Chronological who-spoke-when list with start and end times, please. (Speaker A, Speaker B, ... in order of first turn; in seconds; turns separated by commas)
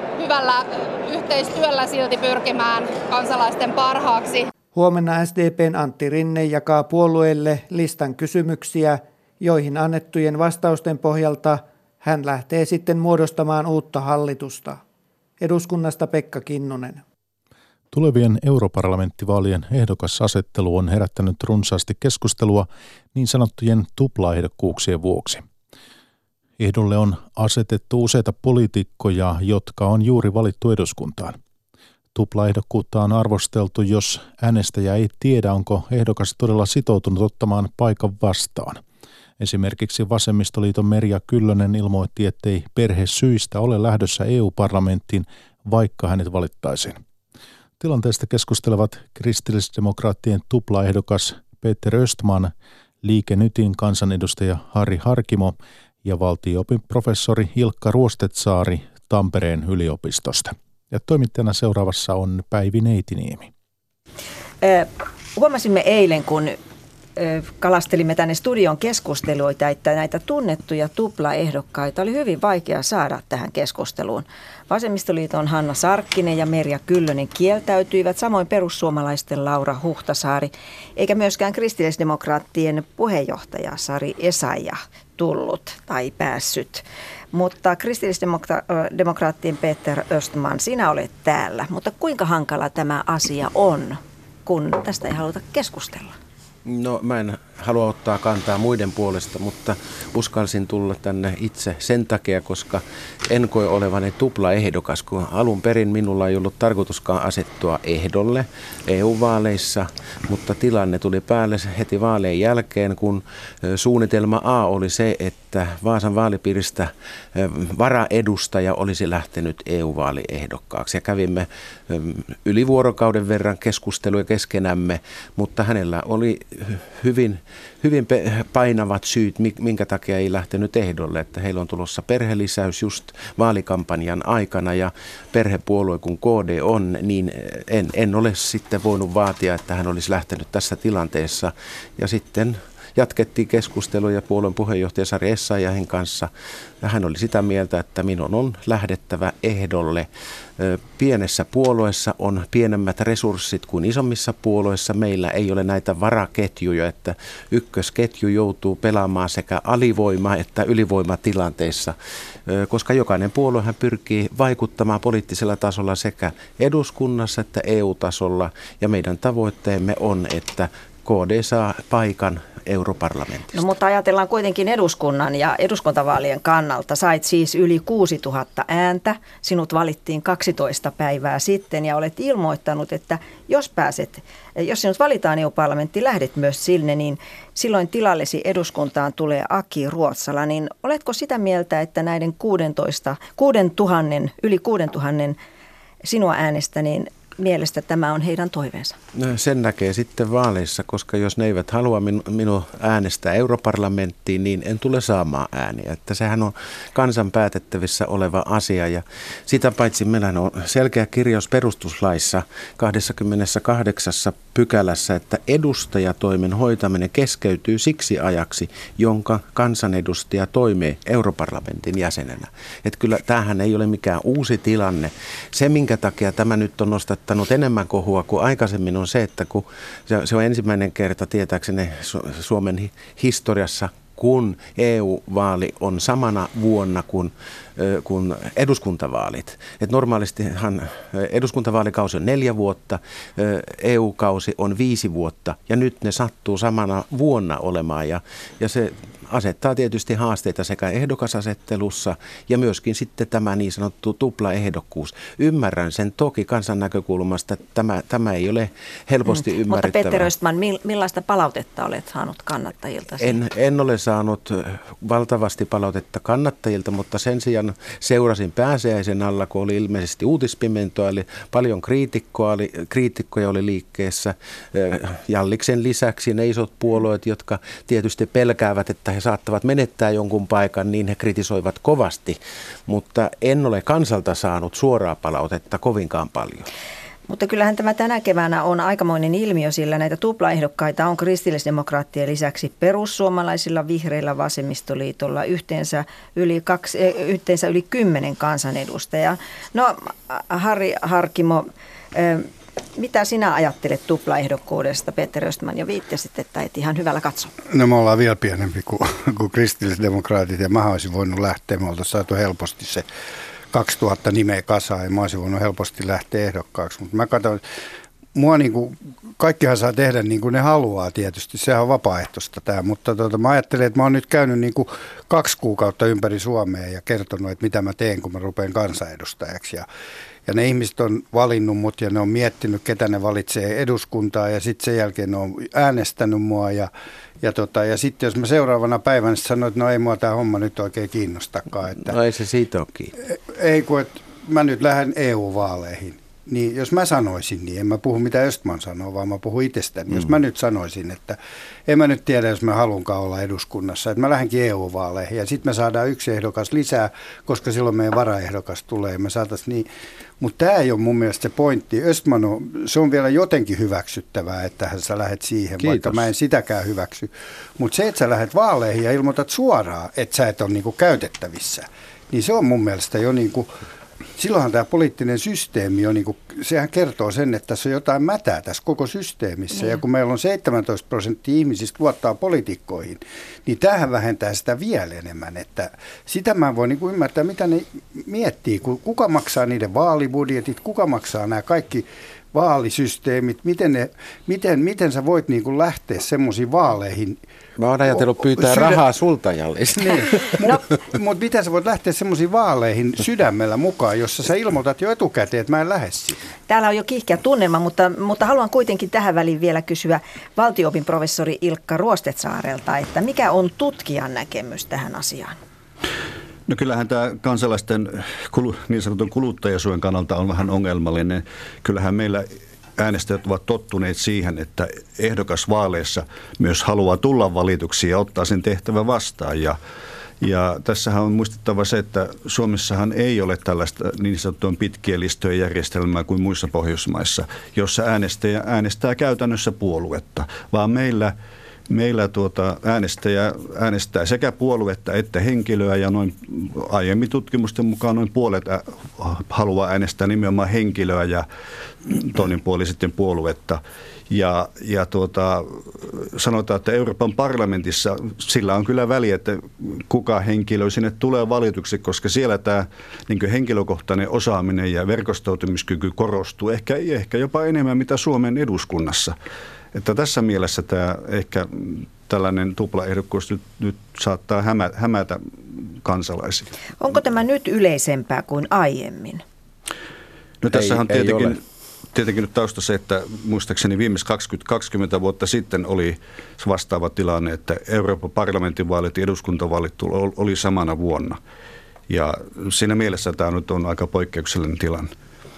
Speaker A: 0.2-4.5, Speaker B: 4.7-14.8, Speaker B: 15.4-17.0, Speaker C: 17.9-25.4, Speaker C: 26.6-31.4, Speaker C: 32.1-38.8, Speaker C: 39.4-47.0, Speaker C: 47.8-63.5, Speaker D: 64.6-66.6, Speaker D: 67.2-96.2, Speaker E: 96.7-146.3, Speaker E: 146.8-150.1, Speaker E: 150.6-162.0, Speaker E: 162.5-173.7, Speaker D: 173.5-195.4, Speaker D: 196.0-199.0, Speaker E: 199.2-260.3, Speaker D: 259.3-263.4, Speaker E: 263.2-286.7, Speaker D: 287.3-307.6, Speaker F: 307.7-313.1, Speaker F: 313.7-317.6, Speaker F: 318.3-329.9, Speaker F: 330.5-342.2, Speaker E: 342.0-343.1, Speaker F: 343.3-359.9, Speaker F: 360.4-373.7, Speaker E: 365.8-366.3, Speaker F: 374.4-397.4, Speaker E: 397.8-400.8, Speaker F: 398.2-399.0, Speaker F: 400.0-406.5, Speaker D: 406.7-415.6, Speaker G: 416.7-429.8, Speaker G: 430.4-441.4, Speaker G: 441.9-451.5, Speaker G: 452.1-469.3, Speaker G: 469.9-476.7, Speaker D: 477.0-479.4, Speaker G: 480.6-481.6, Speaker E: 480.7-481.6, Speaker G: 482.1-491.4, Speaker G: 492.1-495.1